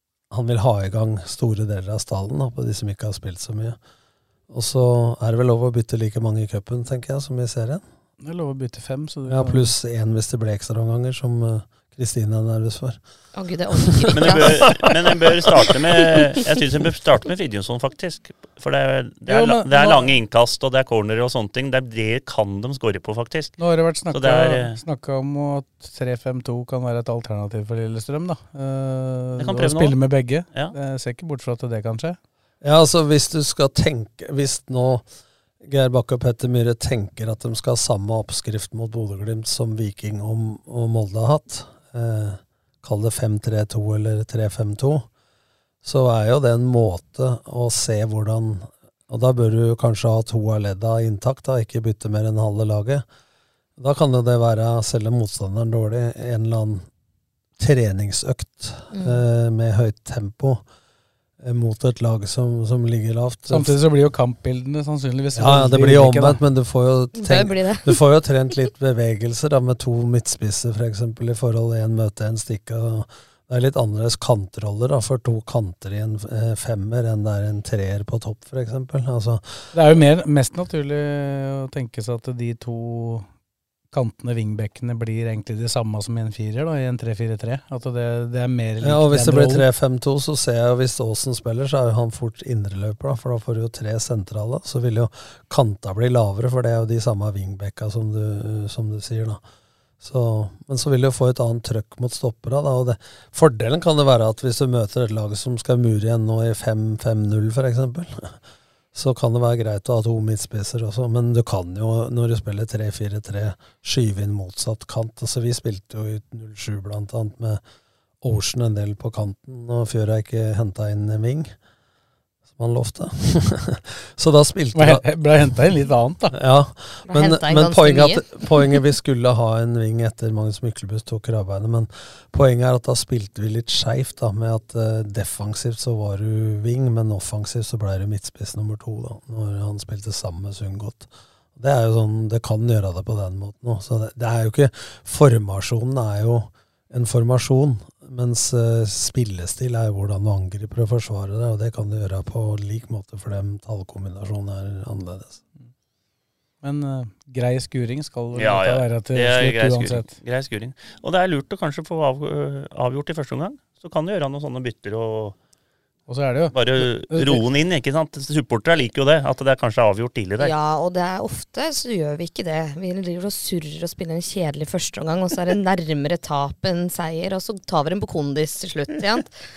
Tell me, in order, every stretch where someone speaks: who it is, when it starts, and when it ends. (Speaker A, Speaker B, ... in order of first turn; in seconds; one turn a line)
Speaker A: 0.3-3.8
Speaker A: 4.5-7.8
Speaker B: 8.2-9.7
Speaker A: 9.3-13.0
Speaker C: 13.3-14.9
Speaker A: 13.9-16.2
Speaker D: 14.1-23.6
Speaker B: 19.3-20.1
Speaker B: 23.6-32.2
Speaker D: 24.1-24.8
Speaker D: 29.4-30.0
Speaker A: 32.6-35.0
Speaker A: 35.6-45.1
Speaker A: 45.8-53.0
Speaker A: 53.8-56.9
Speaker A: 57.6-60.6
Speaker C: 58.9-59.2
Speaker A: 61.4-63.8
Speaker B: 63.5-66.4
Speaker A: 65.4-79.6
Speaker C: 67.1-68.0
Speaker B: 79.7-83.2
Speaker B: 83.9-89.7
Speaker A: 88.8-99.4
Speaker A: 100.0-108.4
Speaker A: 108.9-117.6
Speaker A: 118.2-121.5
Speaker A: 122.5-125.0
Speaker B: 124.7-126.4
Speaker A: 126.3-155.4
Speaker C: 127.1-128.8
Speaker B: 156.6-160.1
Speaker D: 158.3-165.4
Speaker B: 166.1-167.4
Speaker D: 166.5-170.5
Speaker C: 170.4-179.3